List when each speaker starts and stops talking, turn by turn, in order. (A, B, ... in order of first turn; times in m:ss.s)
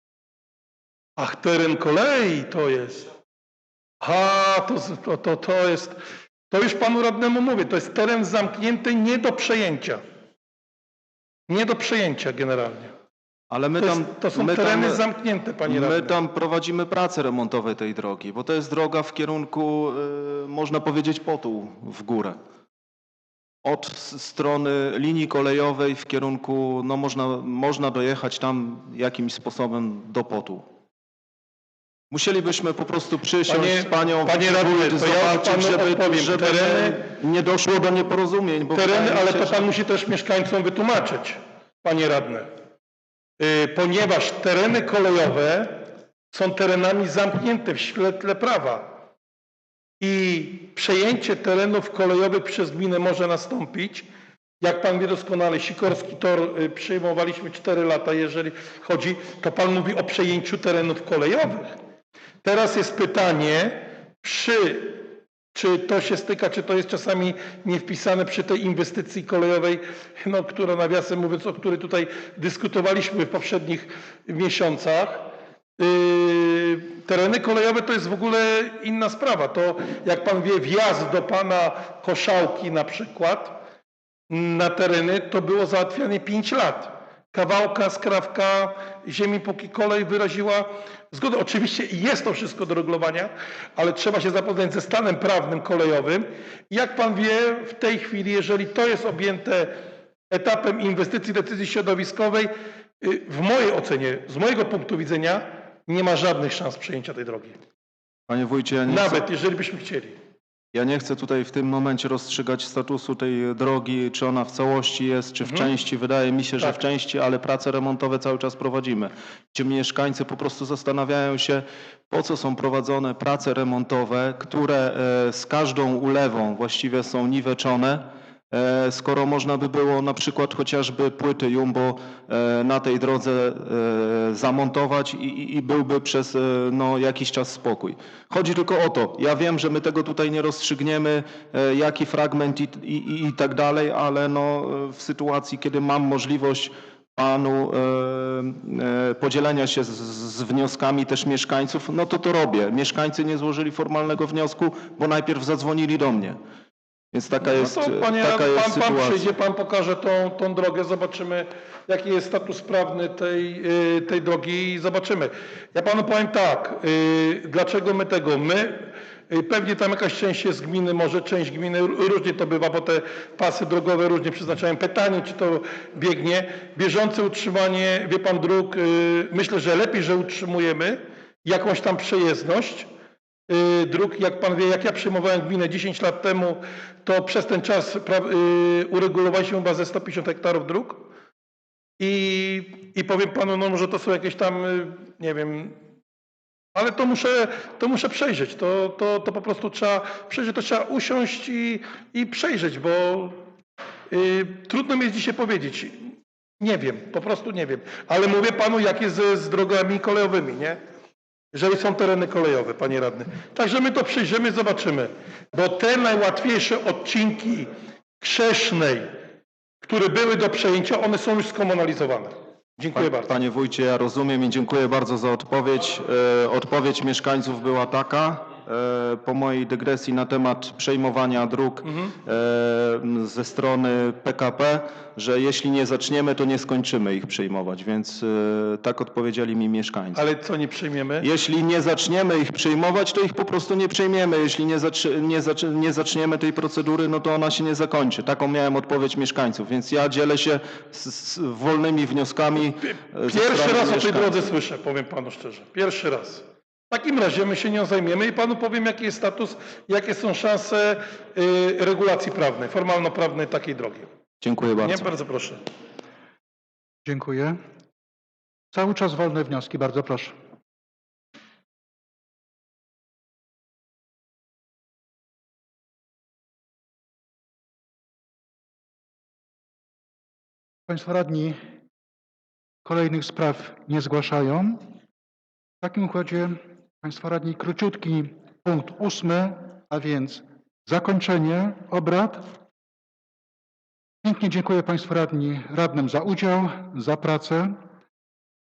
0:01.2-0:03.1 A
0:04.0-0:06.0 A
0:06.5-0:10.0 A
0:11.5-0:12.9 A
0:13.5-0:15.0 B
0:13.8-0:16.2 A
0:15.7-0:22.4 B
0:23.6-0:30.7 B
0:32.1-0:39.7 B
0:33.5-0:37.0 A
0:38.7-0:42.5 A
0:43.4-0:48.9 A
0:50.0-0:54.1 A
0:54.6-1:01.8 A
1:02.4-1:23.6 A
1:24.3-1:47.6 A
1:48.3-1:49.2 B
1:48.9-1:50.2 A
1:50.7-2:36.4 B
1:55.4-1:55.7 A
2:37.1-2:39.4 B
2:37.4-3:02.9 A
3:03.5-3:11.1 A
3:12.0-3:15.8 A
3:16.8-3:23.4 A
3:24.1-3:30.8 A
3:31.5-3:37.7 A
3:38.2-3:39.1 A
3:39.8-3:43.3 A
3:42.9-4:00.2 B
4:00.2-4:01.3 A
4:01.2-4:14.5 B
4:12.9-4:24.1 A
4:24.4-4:25.1 B
4:24.8-4:25.6 A
4:27.1-4:27.6 C
4:28.7-4:30.4 C
4:40.9-4:41.6 C
4:42.8-4:44.9 C
4:45.8-4:52.6 C
4:54.2-4:57.8 C